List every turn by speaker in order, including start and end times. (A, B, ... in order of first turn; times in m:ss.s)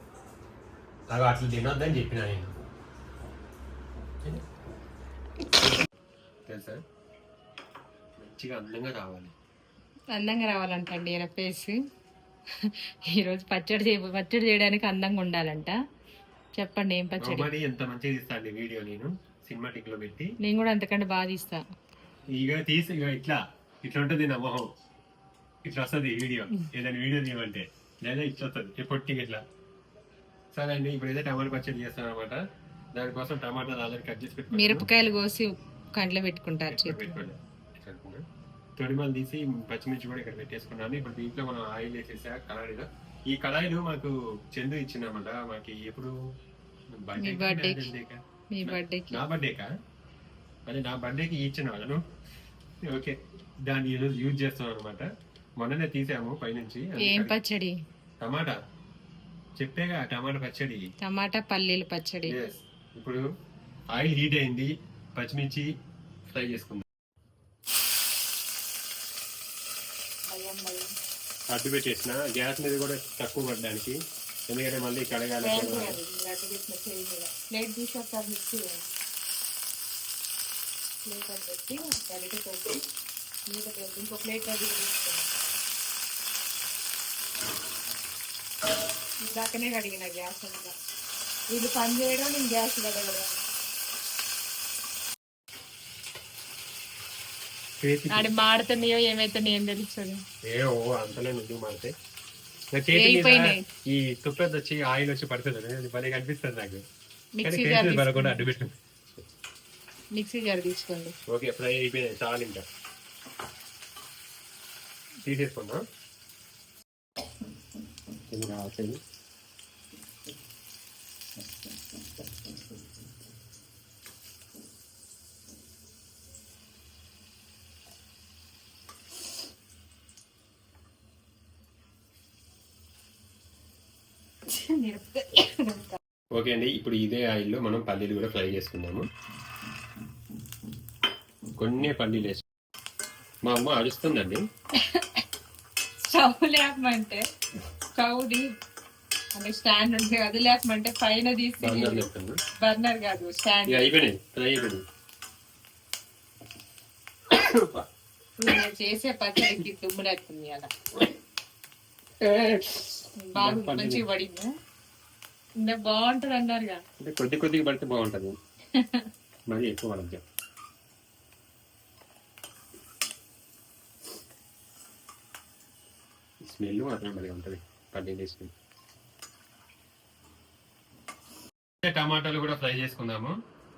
0:01.1-0:02.5 A
0:06.5-0:06.8 A
0:08.2-0:09.3 A
0:10.1-0:11.7 B
0:12.6-0:15.8 B
0:16.6-0:17.5 B
0:17.2-0:20.3 A
0:20.4-0:21.6 B
0:22.3-0:24.6 A
0:25.6-0:29.4 A
0:30.5-0:32.4 A
0:32.9-0:34.9 A
0:34.5-0:37.2 B
0:36.7-0:38.2 A
0:38.8-0:46.1 A
0:46.9-0:49.7 A
0:47.2-0:47.9 B
0:48.5-0:49.2 B
0:50.7-0:52.0 A
0:52.8-0:55.1 A
0:55.6-0:57.3 A
0:57.0-0:57.7 B
0:58.2-0:58.6 A
0:59.6-1:00.8 A
1:01.0-1:02.4 B
1:02.3-1:03.2 A
1:03.9-1:05.7 A
1:06.3-1:06.8 A
1:10.3-1:10.9 B
1:11.5-1:14.0 A
1:14.5-1:16.0 A
1:15.4-1:18.9 B
1:21.1-1:22.8 B
1:23.5-1:25.3 B
1:29.3-1:30.7 B
1:31.5-1:33.4 B
1:37.8-1:38.3 A
1:38.1-1:40.2 B
1:40.5-1:41.9 A
1:42.7-1:46.8 A
1:42.9-1:43.6 B
1:47.4-1:48.4 B
1:47.4-1:48.7 A
1:50.2-1:51.1 B
1:51.3-1:52.6 A
1:55.2-1:55.8 A
1:58.3-1:59.0 A
2:14.5-2:16.0 B
2:16.3-2:19.0 A
2:21.6-2:22.4 A
2:23.4-2:24.4 A
2:24.9-2:25.2 B
2:26.0-2:27.2 B
2:28.0-2:28.4 B
2:29.4-2:32.0 B
2:31.6-2:32.4 A
2:32.6-2:33.8 B
2:33.7-2:34.8 A
2:37.3-2:37.8 A
2:38.4-2:40.7 B
2:42.2-2:44.0 A
2:43.2-2:44.5 B
2:45.6-2:46.8 B
2:47.0-2:48.3 A
2:48.8-2:49.1 B
2:49.5-2:50.2 A
2:56.4-2:58.5 A
3:01.8-3:03.4 A